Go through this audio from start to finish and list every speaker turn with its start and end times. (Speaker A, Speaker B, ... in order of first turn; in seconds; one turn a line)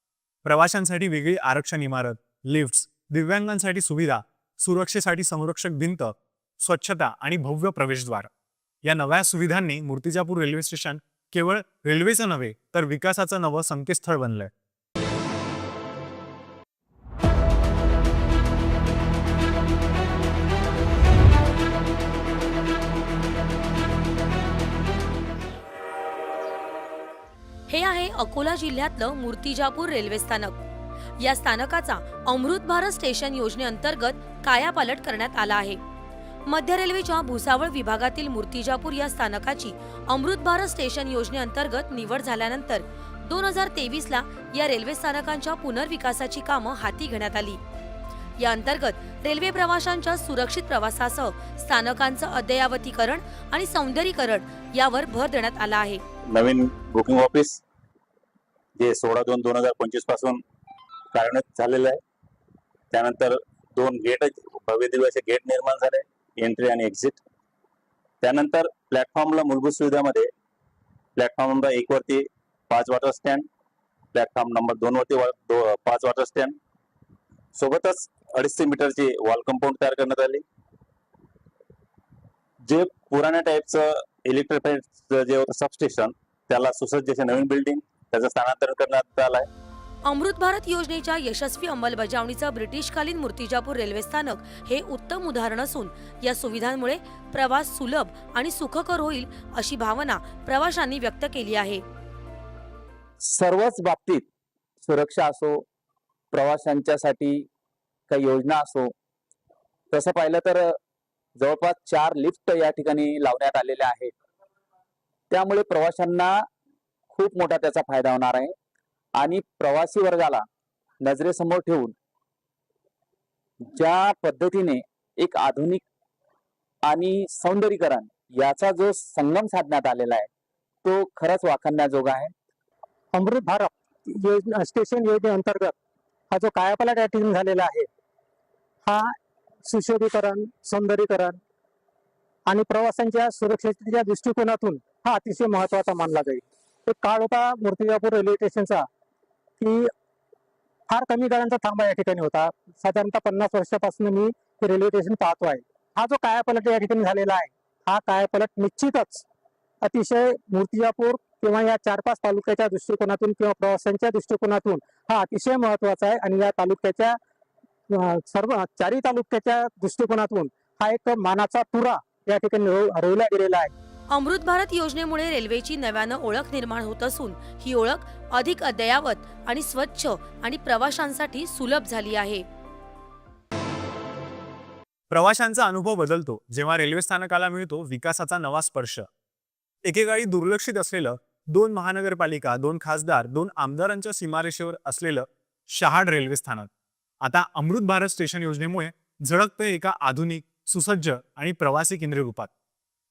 Speaker A: 0.5-8.3
Speaker A: 8.8-14.5
Speaker B: 27.7-30.6
Speaker B: 31.2-35.8
Speaker B: 36.5-47.6
Speaker B: 48.4-56.0
Speaker C: 56.3-57.6
Speaker C: 58.8-60.4
Speaker C: 61.1-62.0
Speaker C: 62.9-67.2
Speaker C: 68.2-70.3
Speaker C: 71.2-73.5
Speaker C: 74.1-76.6
Speaker C: 77.6-80.4
Speaker C: 82.7-89.5
Speaker B: 90.1-101.8
Speaker D: 103.2-104.3
Speaker D: 104.8-105.7
Speaker D: 106.3-107.5
Speaker D: 108.1-108.9
Speaker D: 109.9-110.8
Speaker D: 111.4-114.1
Speaker D: 115.3-116.5
Speaker D: 117.1-118.5
Speaker D: 119.2-120.4
Speaker D: 121.0-122.0
Speaker D: 123.7-125.8
Speaker D: 126.9-130.3
Speaker D: 130.8-132.3
Speaker E: 133.1-135.7
Speaker E: 136.3-137.9
Speaker E: 138.9-139.2
Speaker E: 139.7-141.4
Speaker E: 142.5-148.9
Speaker E: 149.6-149.9
Speaker E: 150.9-159.2
Speaker E: 159.8-167.2
Speaker E: 167.9-173.7
Speaker B: 174.1-182.4
Speaker A: 185.1-189.1
Speaker A: 189.8-196.7
Speaker A: 197.2-202.5